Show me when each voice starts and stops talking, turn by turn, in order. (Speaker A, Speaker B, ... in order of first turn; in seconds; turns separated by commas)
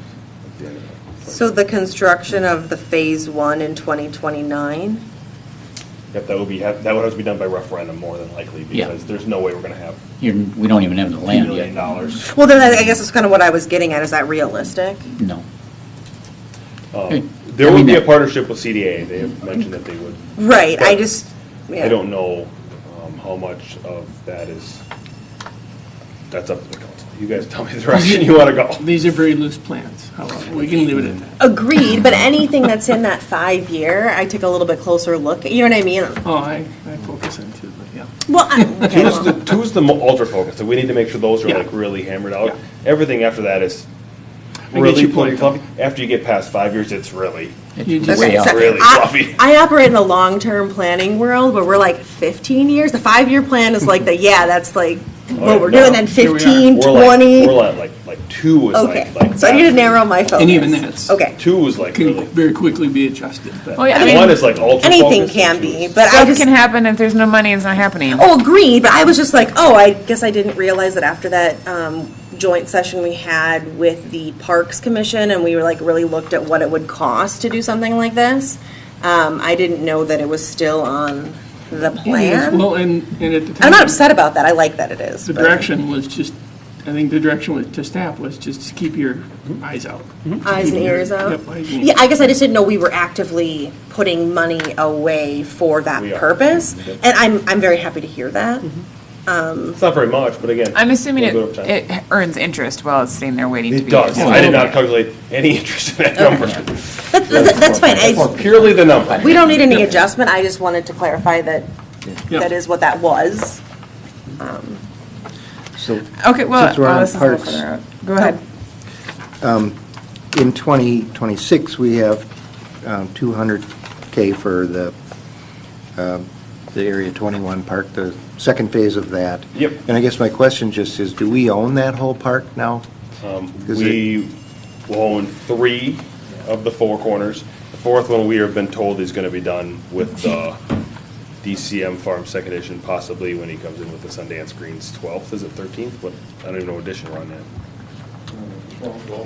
Speaker A: 0.5-1.6, Speaker B: 1.3-5.0, Speaker A: 6.1-10.0, Speaker C: 10.2-11.7, Speaker A: 11.3-12.3, Speaker B: 12.2-15.1, Speaker C: 15.2-15.4, Speaker A: 16.9-21.1, Speaker C: 17.1-18.2, Speaker B: 20.4-22.0, Speaker A: 21.8-24.8, Speaker A: 26.3-28.9, Speaker D: 27.9-31.4, Speaker B: 31.4-36.2, Speaker D: 36.2-39.1, Speaker B: 38.3-39.4, Speaker A: 38.9-43.9, Speaker D: 44.7-45.6, Speaker A: 44.7-47.6, Speaker C: 47.8-48.7, Speaker D: 47.8-48.5, Speaker B: 48.0-57.7, Speaker A: 48.1-49.4, Speaker A: 55.4-56.1, Speaker D: 55.4-56.8, Speaker A: 56.7-60.0, Speaker B: 58.7-61.4, Speaker D: 60.4-64.5, Speaker A: 61.4-62.3, Speaker E: 63.8-64.5, Speaker A: 63.9-66.0, Speaker B: 63.9-64.3, Speaker B: 64.8-66.5, Speaker E: 66.0-68.3, Speaker B: 68.0-82.7, Speaker D: 82.0-84.0, Speaker B: 83.6-85.6, Speaker D: 85.2-92.1, Speaker B: 90.4-98.7, Speaker A: 96.0-97.0, Speaker B: 99.2-99.8, Speaker A: 99.8-101.8, Speaker E: 100.7-104.8, Speaker A: 103.7-109.5, Speaker D: 104.1-104.7, Speaker B: 107.1-108.4, Speaker C: 107.4-109.6, Speaker B: 109.0-111.7, Speaker B: 112.3-113.6, Speaker B: 114.4-114.8, Speaker F: 115.7-117.7, Speaker E: 116.2-118.4, Speaker F: 119.4-119.8, Speaker F: 120.3-122.3, Speaker F: 122.8-124.9, Speaker F: 126.0-132.8, Speaker A: 133.2-134.3, Speaker F: 133.7-134.0, Speaker A: 134.9-140.6, Speaker A: 141.4-147.5